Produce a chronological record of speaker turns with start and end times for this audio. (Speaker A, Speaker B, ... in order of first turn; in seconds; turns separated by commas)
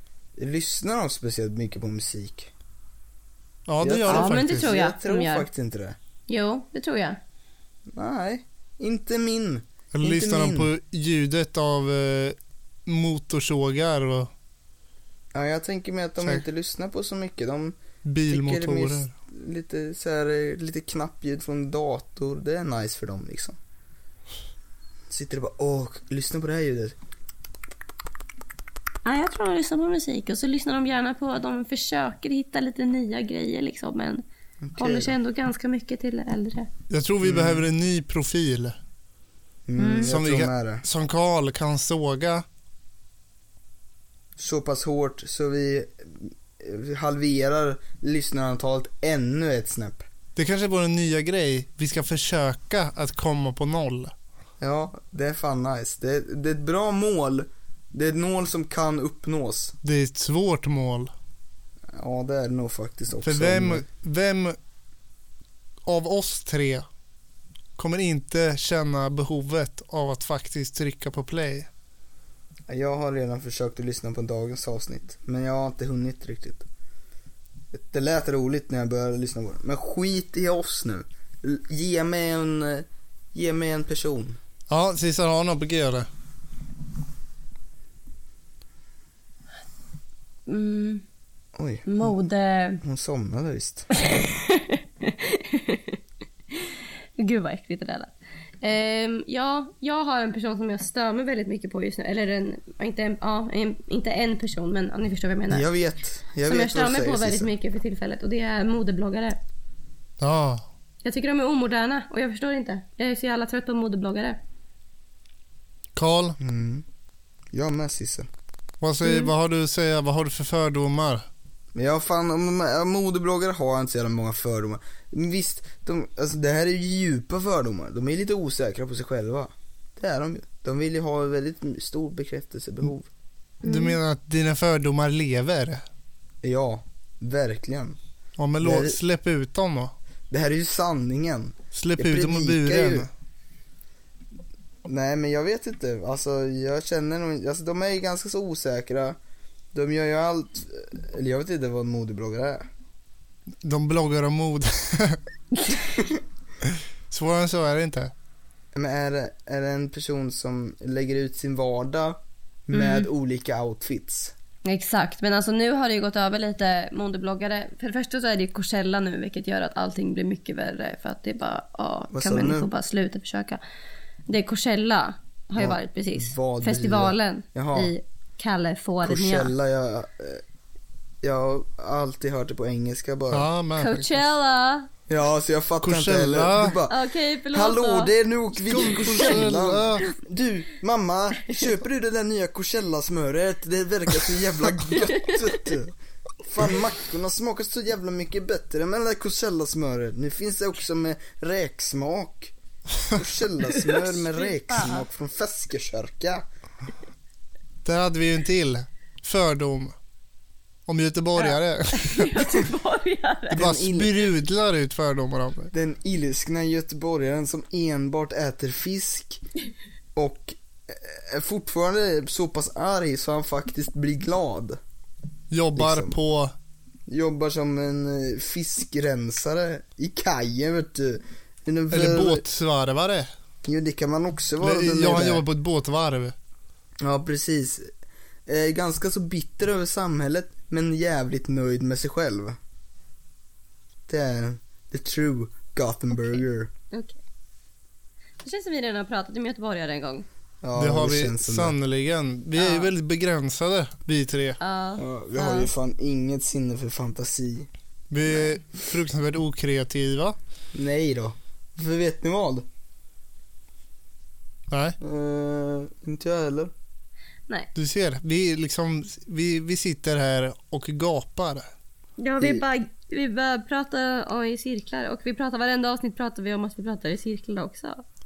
Speaker A: 0.4-2.5, Speaker B: 3.7-4.7, Speaker A: 3.8-6.0, Speaker C: 4.1-5.5, Speaker C: 6.3-7.2, Speaker A: 7.9-10.7, Speaker B: 9.9-14.3, Speaker A: 15.3-23.6, Speaker B: 18.0-19.1, Speaker A: 25.1-26.9, Speaker C: 29.0-34.2, Speaker A: 34.6-35.1, Speaker C: 34.8-36.7, Speaker B: 36.9-38.8, Speaker A: 37.2-37.6, Speaker A: 39.6-40.8, Speaker C: 39.8-40.1, Speaker B: 40.0-42.4, Speaker A: 44.4-50.0, Speaker B: 50.4-54.1, Speaker A: 54.6-59.8, Speaker B: 59.8-61.1, Speaker A: 61.9-63.9, Speaker B: 63.2-64.5, Speaker B: 65.8-66.8, Speaker B: 67.8-71.7, Speaker A: 72.7-76.7, Speaker A: 77.7-84.4, Speaker B: 84.7-86.1, Speaker C: 90.5-91.0, Speaker A: 91.5-92.1, Speaker C: 91.8-92.8, Speaker A: 92.8-93.9, Speaker C: 94.0-96.0, Speaker C: 96.5-105.6, Speaker A: 105.5-107.5, Speaker C: 106.5-109.4, Speaker B: 110.2-110.6, Speaker C: 111.0-114.4, Speaker B: 116.0-116.4, Speaker A: 116.4-116.8, Speaker A: 117.5-118.3, Speaker B: 118.8-121.2, Speaker C: 119.0-119.3, Speaker A: 121.7-133.1, Speaker B: 133.6-135.8, Speaker C: 133.6-134.0, Speaker A: 136.4-138.0, Speaker B: 138.4-139.9, Speaker A: 138.6-139.0, Speaker A: 140.3-143.1, Speaker B: 141.7-143.1, Speaker A: 144.8-149.2, Speaker A: 149.7-152.7, Speaker B: 153.6-155.2, Speaker B: 156.6-158.1, Speaker A: 158.7-164.3, Speaker C: 162.7-163.1, Speaker C: 164.6-173.6, Speaker A: 172.1-172.7, Speaker C: 174.3-179.5, Speaker A: 175.6-177.9, Speaker A: 179.0-180.4, Speaker A: 181.2-183.5, Speaker B: 183.3-184.2, Speaker C: 183.8-184.9, Speaker A: 185.1-202.5, Speaker B: 185.8-186.8, Speaker C: 186.9-188.1, Speaker B: 188.6-190.1, Speaker C: 188.8-189.4, Speaker C: 194.9-195.5, Speaker A: 203.1-206.4, Speaker C: 203.6-205.1, Speaker B: 207.8-209.9, Speaker B: 210.9-212.3, Speaker C: 211.4-213.6, Speaker A: 213.5-214.2, Speaker B: 213.5-215.7, Speaker A: 215.7-219.4, Speaker A: 220.1-224.8, Speaker B: 225.5-226.5, Speaker A: 225.8-226.2, Speaker A: 227.1-232.4, Speaker B: 231.9-233.3, Speaker A: 233.6-235.4, Speaker B: 234.6-236.3, Speaker A: 237.0-237.9, Speaker A: 238.4-242.6, Speaker A: 244.1-246.7, Speaker C: 248.4-250.2, Speaker A: 250.6-251.8, Speaker B: 250.8-254.6, Speaker C: 252.6-252.9, Speaker C: 254.6-255.7, Speaker A: 255.0-257.7, Speaker B: 258.1-260.4, Speaker A: 260.7-262.6, Speaker B: 264.7-265.0, Speaker A: 265.0-266.7, Speaker B: 267.7-271.7, Speaker C: 272.2-278.0